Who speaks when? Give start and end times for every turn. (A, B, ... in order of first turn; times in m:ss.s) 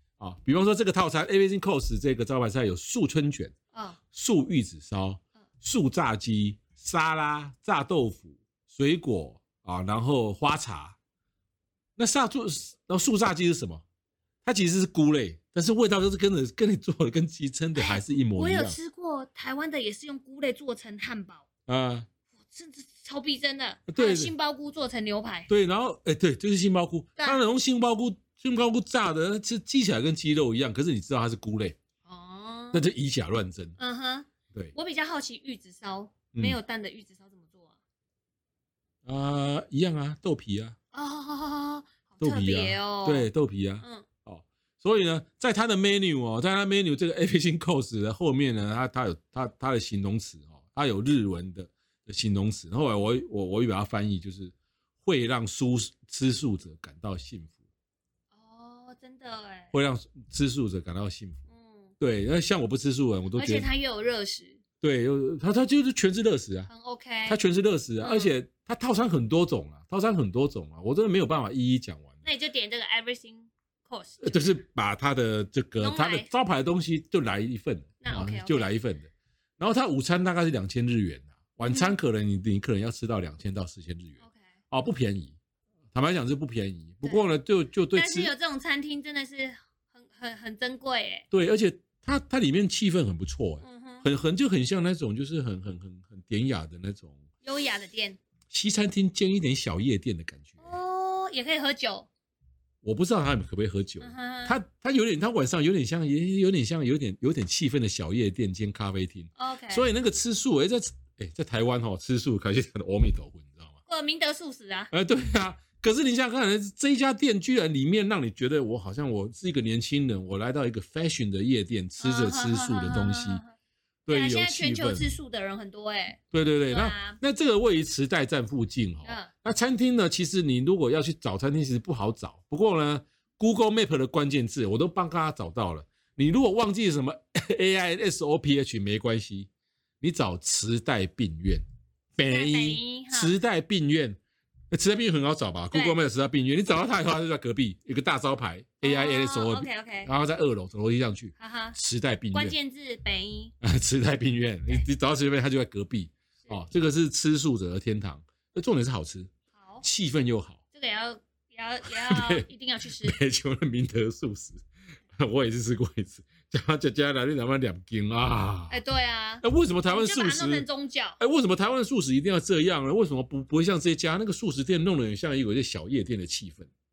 0:00.2-0:03.5 A
0:03.7-0:04.0 B
0:04.1-0:11.0 A
0:12.0-0:13.8 A
0:14.4-0:18.8 A
0:17.8-0:21.4 B
0:21.7-0:22.1 A
0:22.4-0:25.5 B
0:23.9-0:24.3 A
0:25.5-0:31.8 A
0:32.0-0:32.8 B
0:32.7-0:33.8 A
0:33.8-0:37.8 B
0:39.0-0:40.8 A
0:40.9-0:43.3 B
0:42.2-0:57.5 A
0:43.8-0:44.1 B
0:58.3-0:59.7 B
0:59.7-1:01.4 A
1:01.5-1:01.9 B
1:02.0-1:03.7 A
1:03.4-1:04.6 B
1:04.8-1:06.7 A
1:06.7-1:07.4 B
1:07.2-1:12.2 A
1:08.0-1:08.3 B
1:12.2-1:14.6 B
1:14.2-1:24.2 A
1:15.8-1:16.3 B
1:18.0-1:18.7 B
1:21.6-1:21.9 B
1:24.7-1:25.4 A
1:25.9-1:28.3 A
1:27.9-1:31.2 B
1:31.3-1:37.2 A
1:33.6-1:34.0 B
1:37.4-1:38.2 B
1:38.5-1:40.8 A
1:40.6-1:42.1 B
1:42.8-1:53.8 A
1:44.0-1:44.6 B
1:49.4-1:49.9 B
1:53.9-1:54.9 B
1:54.9-2:03.4 A
2:02.0-2:03.5 B
2:04.0-2:05.0 A
2:04.1-2:07.2 B
2:06.3-2:19.5 A
2:09.0-2:09.3 B
2:20.0-2:21.6 A
2:22.2-2:24.2 A
2:22.3-2:23.3 B
2:24.7-2:32.5 A
2:25.7-2:26.0 B
2:28.8-2:30.1 B
2:31.4-2:31.8 B
2:32.3-2:33.5 B
2:33.6-2:39.3 A
2:39.5-2:39.8 B
2:39.8-2:40.6 A
2:40.7-2:43.2 B
2:41.9-2:44.6 A
2:45.2-2:48.8 A
2:48.7-2:51.2 B
2:49.4-2:50.6 A
2:51.2-2:56.7 A